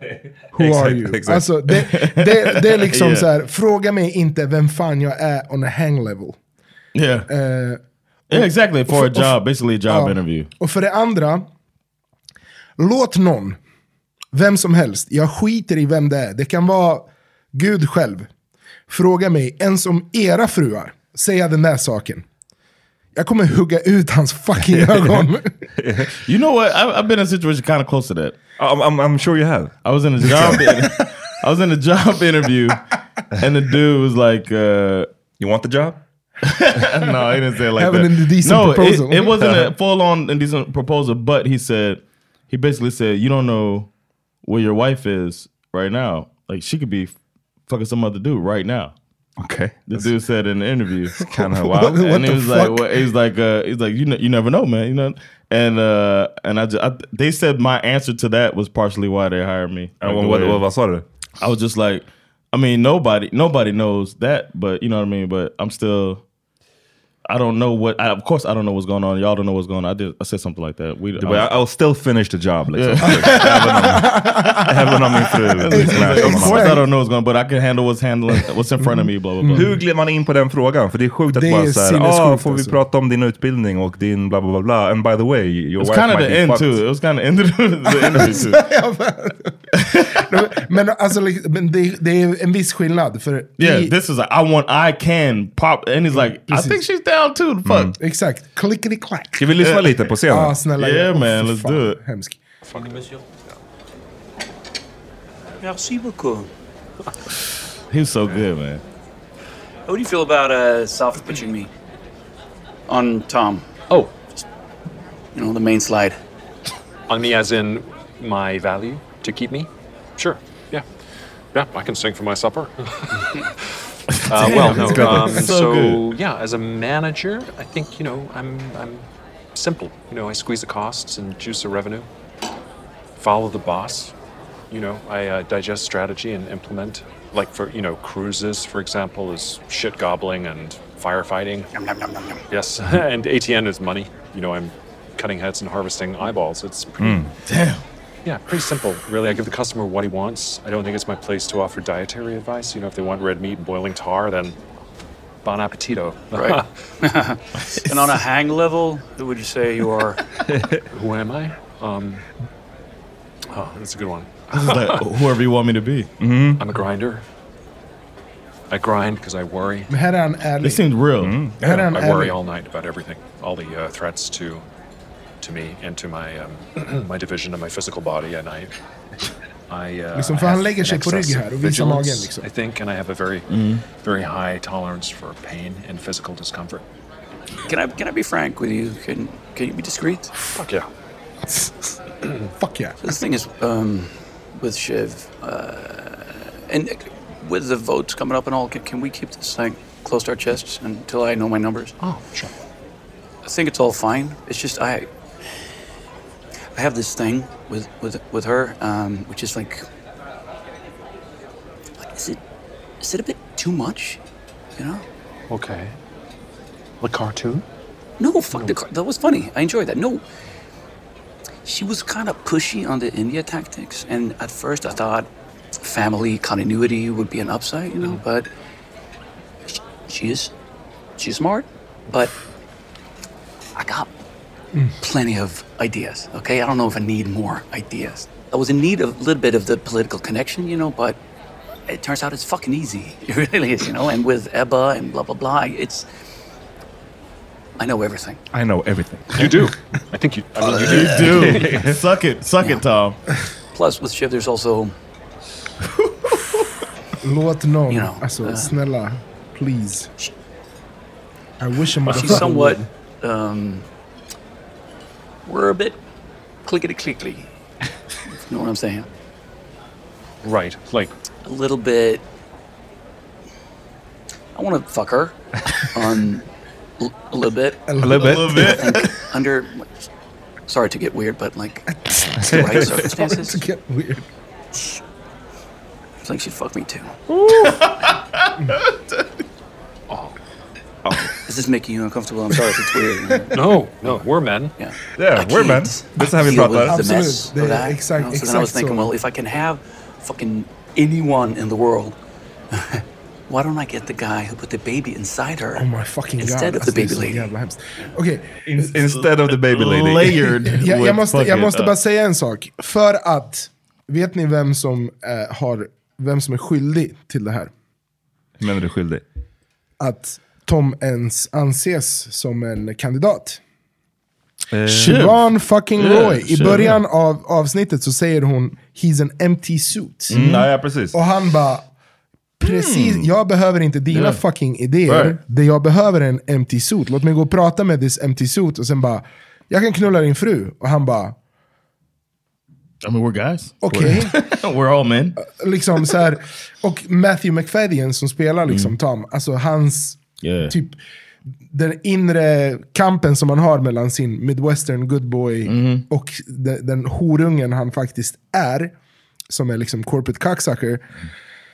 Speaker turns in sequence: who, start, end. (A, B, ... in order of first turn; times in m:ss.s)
0:00.5-0:01.4 A
0:00.5-0:06.4 B
0:01.7-0:03.3 C
0:07.0-0:07.3 C
0:07.3-0:09.4 B
0:08.3-0:10.5 C
0:09.9-0:11.5 B
0:12.8-0:13.6 B
0:14.3-0:18.3 B
0:18.9-0:22.3 B
0:23.2-0:25.7 B
0:24.7-0:25.2 A
0:25.8-0:26.1 A
0:26.2-0:28.4 C
0:28.6-0:30.6 A
0:29.8-0:32.8 C
0:33.4-0:35.1 C
0:35.4-0:36.0 A
0:36.4-0:43.9 C
0:37.8-0:39.3 B
0:39.4-0:39.7 A
0:44.4-0:47.2 C
0:47.7-0:48.9 C
0:49.4-0:50.1 A
0:49.9-0:51.3 C
0:51.3-0:52.1 A
0:51.9-0:52.8 B
0:51.9-1:00.6 C
1:00.0-1:01.0 A
1:01.4-1:06.2 C
1:07.3-1:11.5 C
1:11.2-1:16.7 A
1:12.8-1:14.0 C
1:13.1-1:14.6 B
1:15.6-1:19.7 C
1:15.7-1:16.8 B
1:18.8-1:19.7 B
1:19.5-1:26.8 A
1:21.3-1:22.8 B
1:25.8-1:28.6 C
1:28.0-1:33.9 B
1:29.9-1:30.2 C
1:33.6-1:37.9 C
1:36.1-1:36.8 B
1:37.6-1:38.0 A
1:38.0-1:39.5 B
1:39.4-1:40.6 A
1:39.6-1:39.9 C
1:40.3-1:42.4 B
1:40.8-1:42.0 C
1:42.7-1:43.2 D
1:47.9-1:48.8 C
1:49.9-1:51.7 E
1:52.9-1:53.8 E
1:55.3-1:56.2 E
1:57.1-2:00.9 D
2:01.5-2:03.3 D
2:04.3-2:06.0 C
2:04.3-2:12.1 D
2:13.2-2:14.1 D
2:14.7-2:21.7 D
2:21.7-2:22.4 E
2:22.5-2:27.3 D
2:27.0-2:27.3 A
2:27.5-2:27.8 C
2:28.2-2:34.6 D
2:35.4-2:36.7 D
2:36.3-2:40.1 E
2:39.4-2:39.9 D
2:40.5-2:40.8 A
2:40.9-2:42.2 D
2:43.5-2:45.0 D
2:44.6-2:46.1 C
2:46.2-2:46.6 A
2:46.6-2:47.2 D
2:48.7-2:49.9 D
2:49.9-2:50.8 B
2:50.6-2:51.4 C
2:51.2-2:51.8 A
2:51.6-2:52.4 B
2:51.8-2:54.6 D
2:55.4-2:58.7 D
2:59.7-3:06.9 D
3:00.2-3:02.5 B
3:03.5-3:03.8 C
3:07.7-3:10.4 E
3:10.6-3:10.9 D
3:12.6-3:13.0 B
3:13.0-3:22.0 E
3:22.0-3:22.5 D
3:23.4-3:25.1 E
3:26.7-3:29.9 E
3:32.0-3:32.4 E
3:33.0-3:34.2 E
3:34.8-3:35.0 E
3:35.5-3:36.0 D
3:37.0-3:37.6 D
3:38.2-3:40.3 E
3:38.5-3:38.8 D
3:41.6-3:48.5 E
3:49.7-3:50.5 E
3:51.2-3:52.3 E
3:53.8-3:54.1 E
3:55.0-4:01.2 E
4:01.9-4:06.1 E
4:07.8-4:08.4 E
4:08.5-4:09.7 A
4:09.4-4:11.7 D
4:10.8-4:13.2 C
4:10.9-4:12.0 A
4:13.7-4:15.0 E
4:17.2-4:20.1 B
4:17.9-4:18.7 E
4:21.6-4:22.9 B
4:22.0-4:23.9 E
4:25.5-4:26.0 E
4:26.6-4:27.5 E
4:28.3-4:29.1 E
4:30.4-4:31.1 D
4:31.4-4:32.2 E
4:34.5-4:36.5 E
4:37.0-4:38.0 E
4:37.9-4:38.8 B
4:38.0-4:38.6 A
4:38.0-4:39.2 C
4:38.6-4:40.1 E
4:40.7-4:43.6 E
4:42.1-4:42.6 B
4:43.1-4:44.3 B
4:46.2-4:47.2 E
4:47.3-4:47.8 A
4:50.1-4:50.4 D
4:51.0-4:51.3 A
4:51.5-4:54.1 E
4:52.6-4:54.7 D
4:54.8-5:02.2 E
4:55.2-4:57.1 A
4:56.5-4:59.1 B
5:02.7-5:05.9 E
5:05.8-5:08.9 B
5:06.4-5:07.5 E
5:08.7-5:10.5 A
5:09.7-5:11.9 C
5:10.6-5:17.7 B
5:18.6-5:19.2 A
5:20.0-5:23.6 B
5:24.7-5:25.2 A
5:24.9-5:30.4 B
5:25.0-5:25.4 C
5:26.0-5:27.0 C
5:30.3-5:30.6 C
5:30.3-5:31.2 A
5:31.1-5:31.9 B
5:32.6-5:41.4 B
5:32.7-5:33.3 A
5:34.1-5:34.4 C
5:35.1-5:35.4 C
5:43.0-5:45.4 C
5:43.8-5:44.3 B
5:45.4-5:51.0 B
5:48.7-5:49.0 C
5:50.4-5:50.7 C
5:51.7-5:58.9 B
5:55.7-5:56.0 C
5:59.5-6:01.1 B